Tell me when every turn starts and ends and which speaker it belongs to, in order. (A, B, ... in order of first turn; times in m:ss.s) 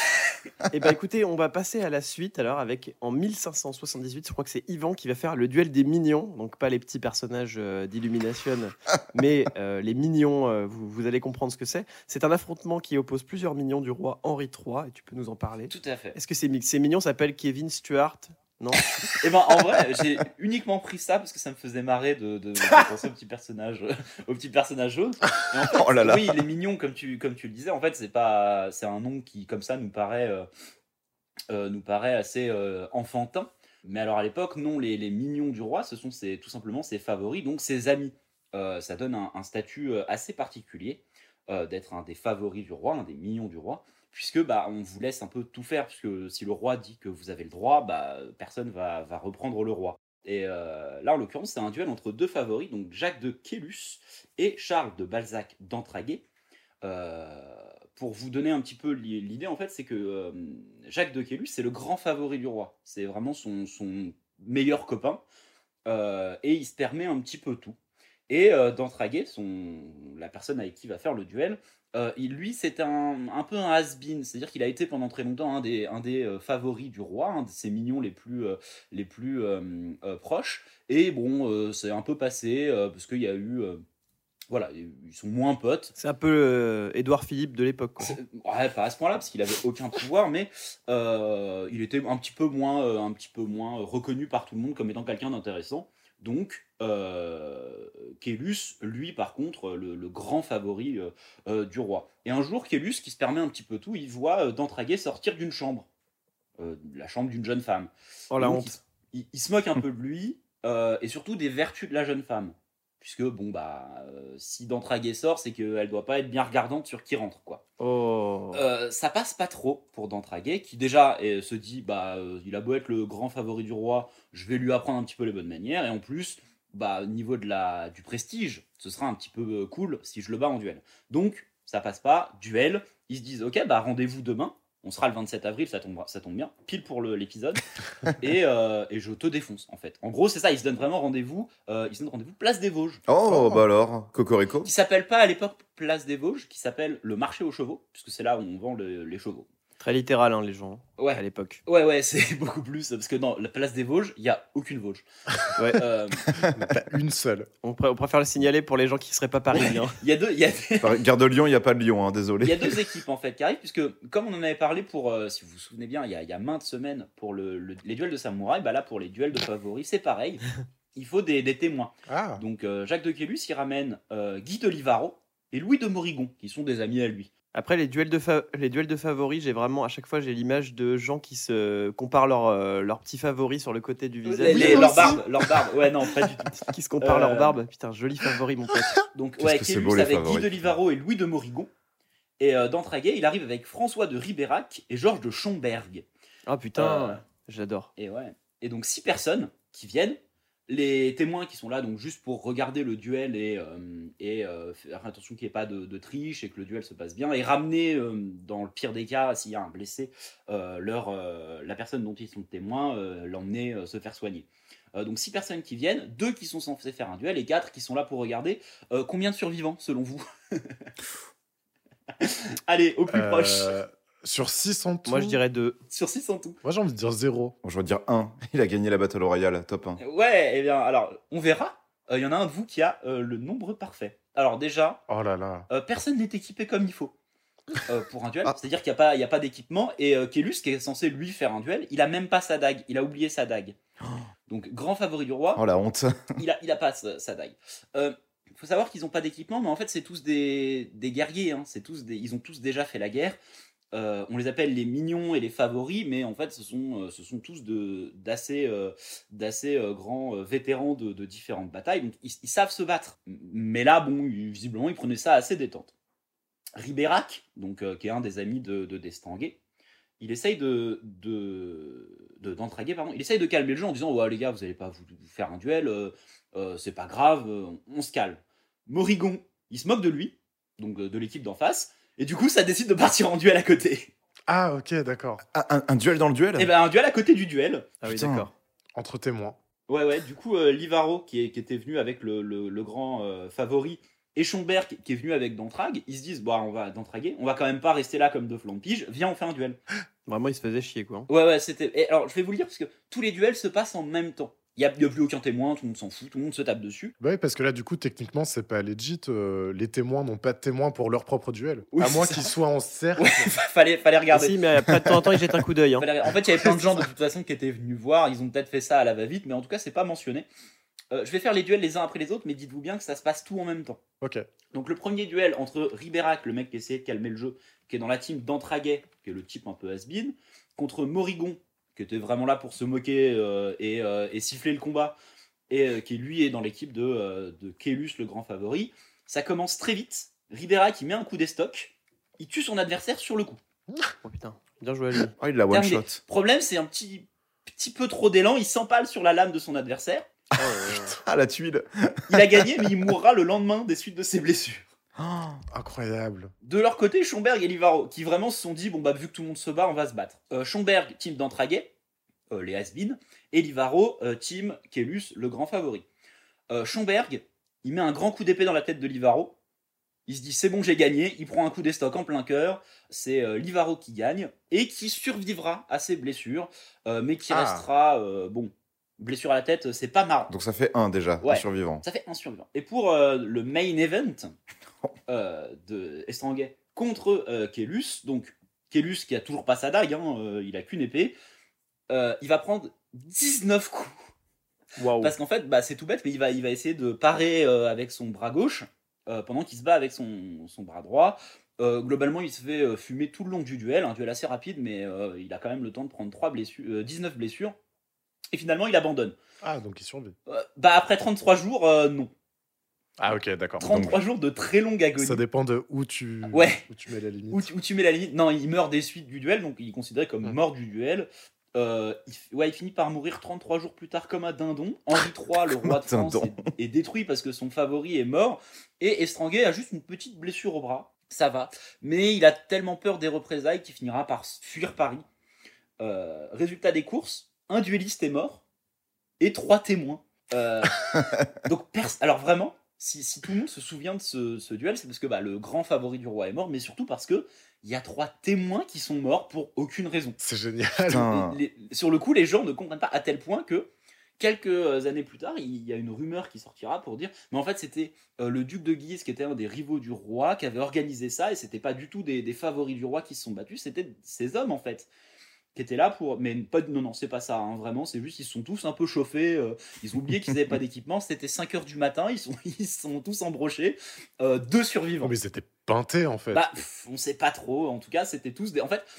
0:00.7-0:18.9 A
0:15.7-0:16.2 B
0:19.1-0:30.5 B
0:25.7-0:26.4 C
0:31.5-0:56.2 B
0:56.8-1:05.2 B
1:05.8-1:07.8 B
1:08.3-1:23.8 B
1:24.5-1:25.9 B
1:26.0-1:28.2 A
1:28.0-1:45.9 B
1:46.6-1:57.6 B
1:48.3-1:48.8 A
1:57.8-1:58.6 A
1:58.5-2:23.0 B
2:23.1-2:24.7 C
2:24.6-2:29.5 B
2:29.8-2:31.6 A
2:31.0-2:36.3 B
2:35.6-2:35.8 A
2:36.5-2:37.5 D
2:37.6-2:40.0 A
2:39.5-2:41.0 B
2:40.8-2:42.8 C
2:42.4-2:57.3 B
2:52.1-2:52.4 D
2:57.5-3:05.2 A
3:04.2-3:07.6 B
3:04.6-3:04.8 C
3:06.7-3:09.0 A
3:09.1-3:11.7 B
3:09.4-3:10.7 C
3:12.4-3:16.0 B
3:16.5-3:17.9 A
3:16.8-3:17.2 B
3:18.0-3:40.9 B
3:42.2-3:43.7 B
3:43.1-3:45.4 D
3:45.0-3:45.8 A
3:45.9-3:46.6 B
3:46.6-3:47.5 D
3:47.6-3:50.0 C
3:50.0-3:55.0 B
3:55.1-3:55.7 D
3:55.7-3:57.1 B
3:57.8-4:03.8 B
4:04.5-4:05.6 B
4:05.5-4:06.4 C
4:06.4-4:13.4 B
4:13.9-4:25.9 B
4:26.8-4:29.6 B
4:30.2-4:44.1 B
4:44.5-4:45.4 D
4:45.5-4:46.7 C
4:46.6-4:47.9 B
4:48.0-4:48.5 A
4:48.0-4:48.5 C
4:49.0-4:49.6 D
4:49.9-4:59.8 B
5:00.3-5:01.3 A
5:01.3-5:07.1 B
5:07.2-5:13.4 D
5:11.9-5:12.5 B
5:13.2-5:14.6 B
5:14.3-5:16.1 A
5:16.0-5:20.4 B
5:21.1-5:24.0 B
5:24.2-5:24.5 D
5:24.7-5:35.2 B
5:35.7-5:43.6 B
5:44.2-5:45.3 A
5:45.4-5:46.2 C
5:45.7-5:50.3 B
5:50.6-5:51.1 A
5:50.9-5:52.9 C
5:52.3-5:54.8 B
5:55.2-5:55.6 C
5:55.7-5:56.5 D
5:56.6-6:01.9 B
6:02.5-6:06.0 B
6:06.7-6:09.5 B
6:10.3-6:20.5 B
6:17.5-6:17.8 D
6:20.5-6:22.0 C
6:21.4-6:24.5 B
6:25.3-6:31.3 B
6:32.1-6:34.1 B
6:35.0-6:35.3 A
6:35.2-6:47.8 B
6:48.5-6:49.4 B
6:49.6-6:50.3 D
6:50.5-6:52.3 B
6:53.2-6:53.9 D
6:53.8-6:55.4 B
6:53.8-6:54.2 C
6:55.2-6:57.7 D
6:56.5-6:56.8 B
6:57.5-7:15.2 B
7:05.9-7:06.7 C
7:16.0-7:18.6 B
7:19.4-7:30.4 B
7:30.4-7:31.2 D
7:31.1-7:31.6 C
7:31.1-7:45.1 B
7:45.7-7:55.3 B
7:55.2-7:56.6 D
7:56.5-7:59.0 B